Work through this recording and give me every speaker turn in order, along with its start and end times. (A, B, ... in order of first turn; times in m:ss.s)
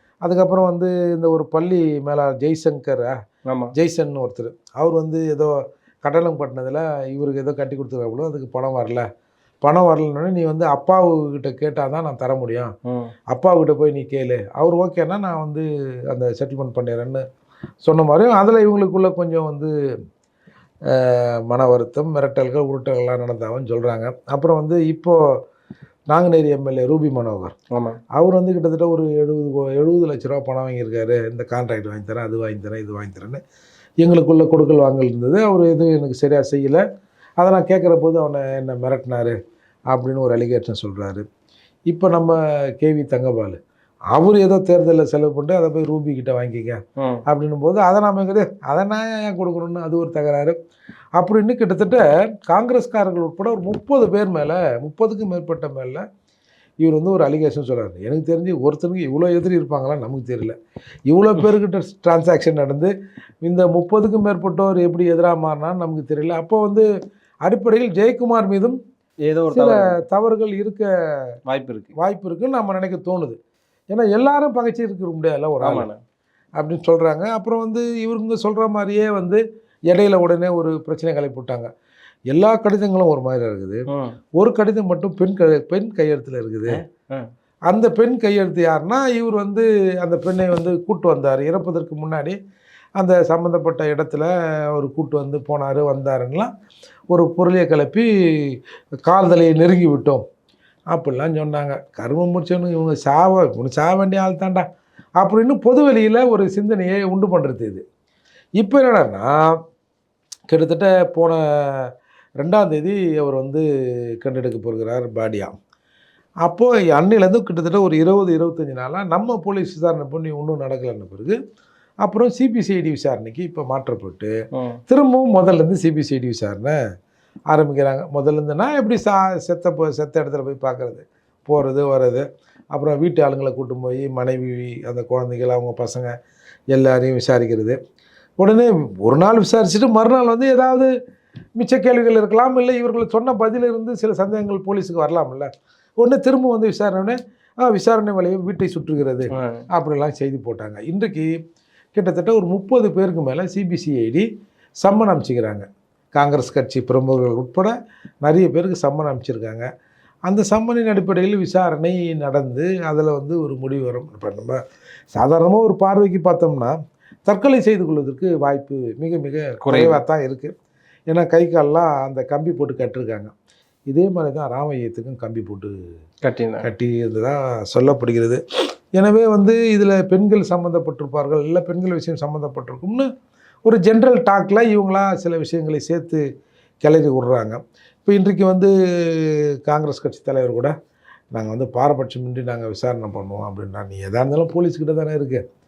0:00.2-0:03.1 A
0:03.8-0:09.0 A
0:09.6-0:12.7 A
0:13.3-0:17.2 A
0:17.8-0:19.7 A
0:20.9-0:25.2 A
0:26.1-0:27.5 A
0:28.1-0:33.4 A
0:34.0-0:36.8 A
0:37.4-0:39.4 A
0:39.9-0:41.2 A
0:41.9-0:43.6 A
0:44.1-0:50.6 A
0:47.0-0:47.2 B
0:51.2-0:56.0 A
0:56.8-1:00.5 A
1:01.1-1:06.8 A
1:07.4-1:08.8 A
1:09.3-1:09.9 B
1:09.5-1:10.9 A
1:11.5-1:11.9 B
1:12.0-1:13.4 A
1:13.9-1:15.9 A
1:15.6-1:16.0 B
1:16.6-1:21.7 A
1:22.3-1:23.8 A
1:23.9-1:24.2 B
1:24.4-1:26.8 A
1:26.7-1:27.3 B
1:27.7-1:32.4 A
1:33.0-1:36.5 A
1:37.1-1:40.2 A
1:40.9-1:44.6 A
1:45.2-1:47.8 A
1:48.6-1:49.5 A
1:50.5-1:53.6 A
1:54.2-1:55.5 A
1:56.4-2:01.4 A
2:02.0-2:04.3 A
2:04.9-2:06.8 A
2:07.5-2:16.1 A
2:16.7-2:17.8 A
2:18.4-2:20.9 A
2:21.6-2:31.3 A
2:29.3-2:29.6 B
2:31.9-2:34.2 A
2:34.8-2:39.6 A
2:40.2-2:44.6 A
2:45.1-2:46.7 A
2:47.3-2:50.5 A
2:49.6-2:50.0 B
2:51.1-2:53.3 A
2:53.9-2:55.7 A
2:56.2-2:56.7 B
2:56.6-2:58.4 A
2:58.9-3:03.1 A
3:03.6-3:06.2 A
3:06.8-3:10.7 A
3:11.3-3:15.4 A